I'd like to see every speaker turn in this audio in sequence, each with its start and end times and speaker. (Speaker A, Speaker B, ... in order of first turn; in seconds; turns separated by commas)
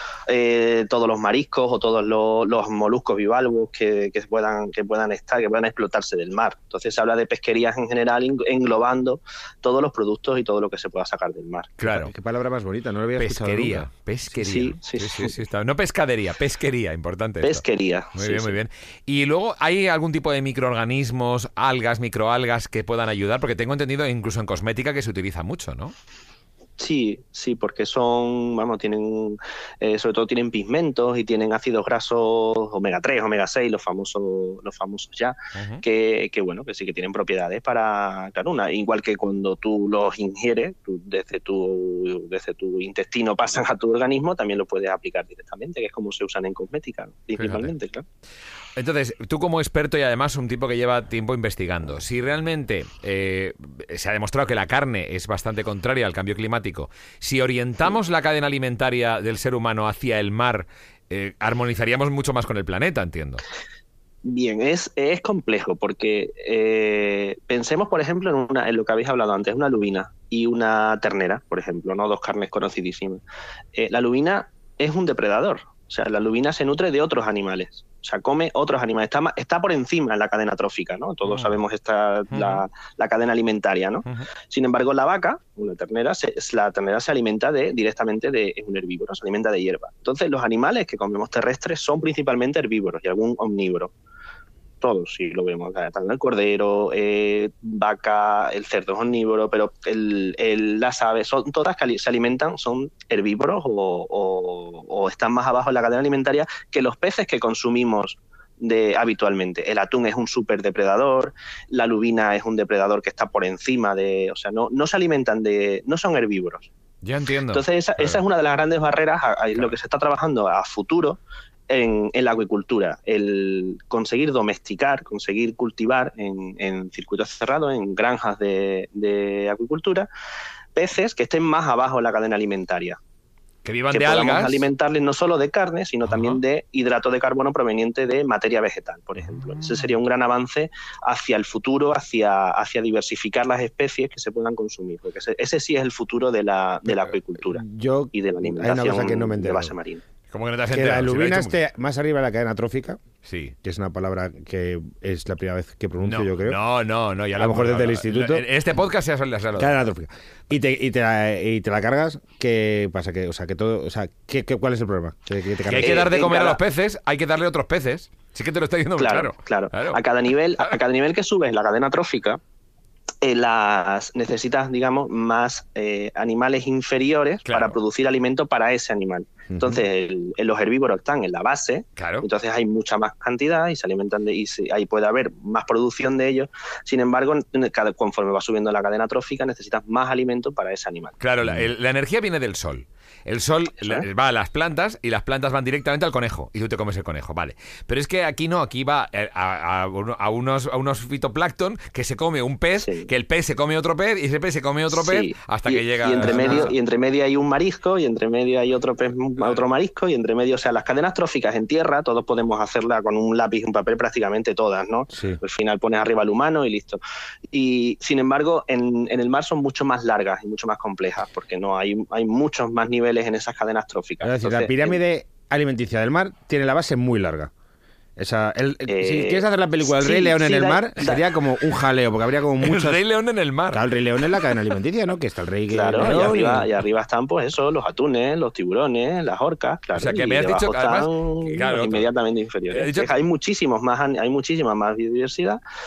Speaker A: 0.3-11.8, Speaker B: 11.8-12.1, Speaker C: 11.9-13.9, Speaker B: 13.2-17.6, Speaker A: 14.4-15.3, Speaker A: 17.4-18.5, Speaker B: 18.2-25.9, Speaker A: 26.8-48.0, Speaker B: 35.6-35.8, Speaker B: 47.4-47.8, Speaker B: 48.8-63.4, Speaker A: 64.2-73.2, Speaker A: 73.7-93.9, Speaker B: 81.2-81.6, Speaker B: 82.3-82.6, Speaker A: 94.8-116.7, Speaker B: 117.0-118.2, Speaker A: 117.5-130.1, Speaker A: 130.8-133.0, Speaker B: 133.6-134.7, Speaker A: 133.9-147.6, Speaker B: 136.1-136.4, Speaker B: 139.5-139.8, Speaker C: 147.4-149.7, Speaker A: 148.1-150.0, Speaker B: 150.3-151.6, Speaker C: 150.7-153.0, Speaker B: 153.2-153.6, Speaker C: 153.6-156.6, Speaker B: 156.0-159.8, Speaker C: 157.4-158.4, Speaker C: 159.6-166.1, Speaker B: 165.7-170.0, Speaker A: 165.8-166.6, Speaker A: 169.0-172.4, Speaker A: 173.2-191.2, Speaker B: 177.5-177.8, Speaker C: 179.5-179.8, Speaker B: 182.0-182.3, Speaker B: 191.2-206.8, Speaker A: 202.8-203.1, Speaker A: 204.9-225.0, Speaker C: 206.2-206.7, Speaker B: 209.4-209.6, Speaker C: 215.1-215.4, Speaker C: 224.2-227.5, Speaker C: 228.2-233.0, Speaker A: 228.9-231.2, Speaker B: 232.6-234.7, Speaker C: 233.7-236.7, Speaker A: 235.7-245.6, Speaker B: 236.0-236.6, Speaker B: 239.9-242.1, Speaker B: 242.7-243.1